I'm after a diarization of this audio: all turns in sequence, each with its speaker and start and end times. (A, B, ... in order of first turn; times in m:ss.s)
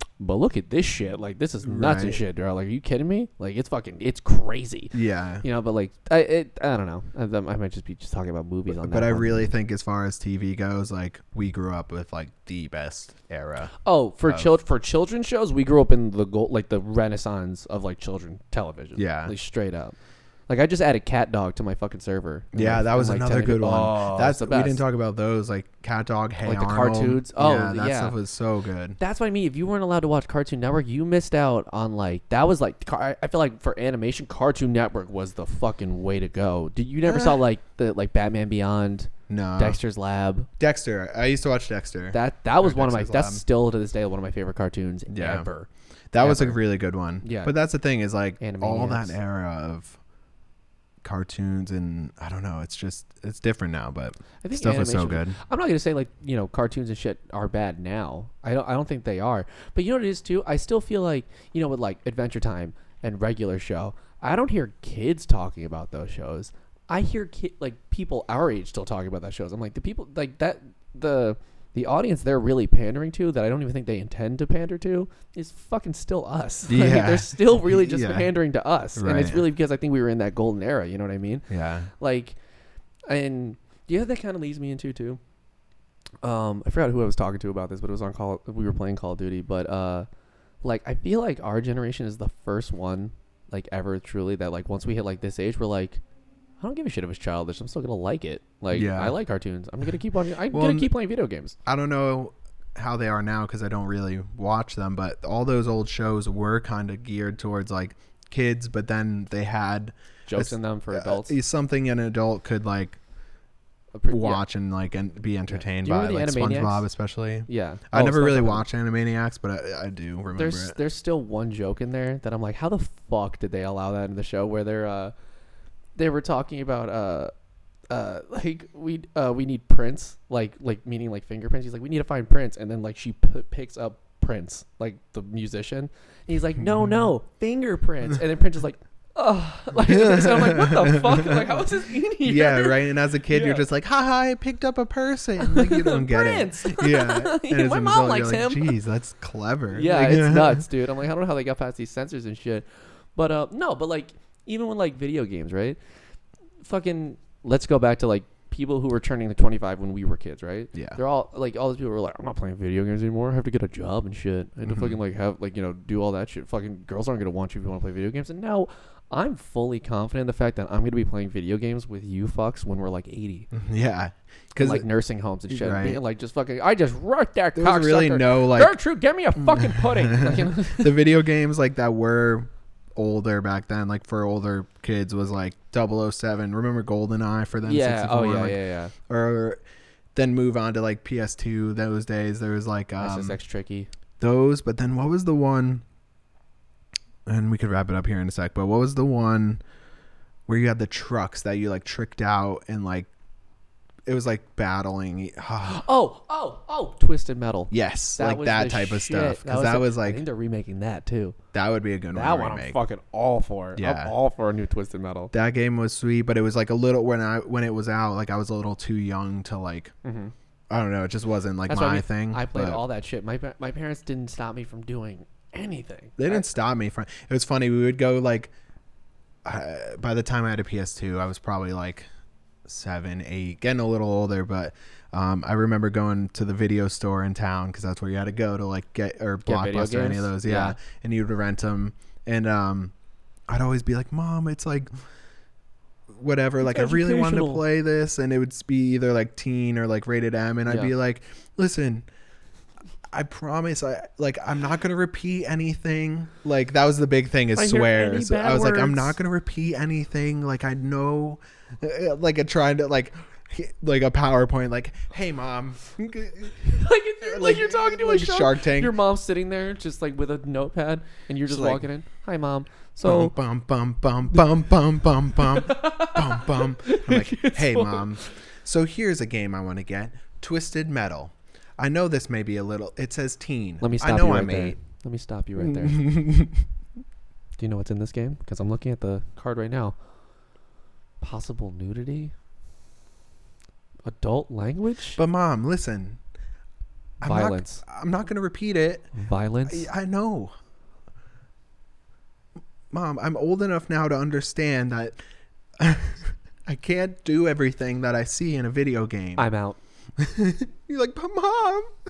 0:00.2-0:09.5 A
0:01.6-0:02.2 B
0:04.9-0:05.4 B
0:08.7-0:13.7 B
0:13.8-0:20.0 A
0:14.2-0:14.5 B
0:19.0-0:19.3 B
0:20.5-0:24.8 A
0:22.5-0:29.0 B
0:26.4-0:28.2 A
0:29.0-0:40.5 A
0:37.0-0:37.4 B
0:39.3-0:39.8 B
0:40.6-0:43.4 B
0:42.1-0:46.6 A
0:45.1-0:45.4 B
0:46.1-0:50.0 B
0:47.2-0:47.5 A
0:48.4-0:49.2 A
0:51.0-0:55.4 B
0:54.4-1:22.4 A
1:16.7-1:18.3 B
1:18.9-1:19.4 B
1:21.5-1:21.9 B
1:23.1-1:25.2 A
1:26.2-1:30.1 A
1:30.6-1:36.0 A
1:36.6-1:41.6 A
1:38.7-1:39.1 B
1:40.5-1:40.9 B
1:41.6-1:53.0 B
1:50.3-1:51.4 A
1:53.9-1:54.4 A
1:54.1-2:00.8 B
1:55.5-1:56.8 A
1:57.5-1:58.6 A
2:00.3-2:05.1 A
2:06.0-2:07.3 A
2:07.9-2:23.6 A
2:16.8-2:17.1 B
2:19.8-2:21.6 B
2:22.2-2:30.6 B
2:25.4-2:28.7 A
2:29.7-2:35.8 A
2:36.6-2:53.5 A
2:40.7-2:41.0 B
2:44.6-2:45.0 B
2:53.5-2:54.8 B
2:54.6-3:01.0 A
2:55.5-2:56.0 B
2:57.6-2:58.7 B
2:59.4-3:09.6 B
3:07.6-3:08.9 A
3:10.1-3:13.4 B
3:13.0-3:13.9 A
3:14.2-3:15.8 B
3:17.2-3:19.6 B
3:20.5-3:23.1 B
3:24.0-3:25.8 B
3:25.6-3:31.4 A
3:27.7-3:30.2 B
3:31.5-3:32.8 B
3:32.1-3:35.3 A
3:33.8-3:34.1 B
3:35.3-3:39.9 B
3:40.0-3:40.3 A
3:40.7-3:42.8 B
3:41.7-3:46.5 A
3:46.2-3:48.5 B
3:49.4-3:52.1 B
3:52.6-4:02.9 B
3:59.4-4:00.8 A
4:03.5-4:04.9 B
4:06.1-4:12.0 B
4:06.6-4:07.6 A
4:10.7-4:10.9 A
4:13.1-4:29.0 B
4:17.5-4:19.1 A
4:26.6-4:33.3 A
4:31.4-4:31.8 B
4:33.0-4:44.8 B
4:35.4-4:38.3 A
4:43.8-4:46.1 A
4:45.6-4:46.6 B
4:47.6-4:50.0 A
4:51.2-4:52.3 A
4:54.0-4:55.2 A
4:55.2-4:56.2 B
4:57.2-4:59.1 B
4:57.2-4:57.8 A
4:59.2-4:59.9 A
4:59.7-5:00.5 B
5:02.9-5:05.2 B
5:05.8-5:09.4 B
5:09.4-5:09.8 A
5:10.2-5:11.9 B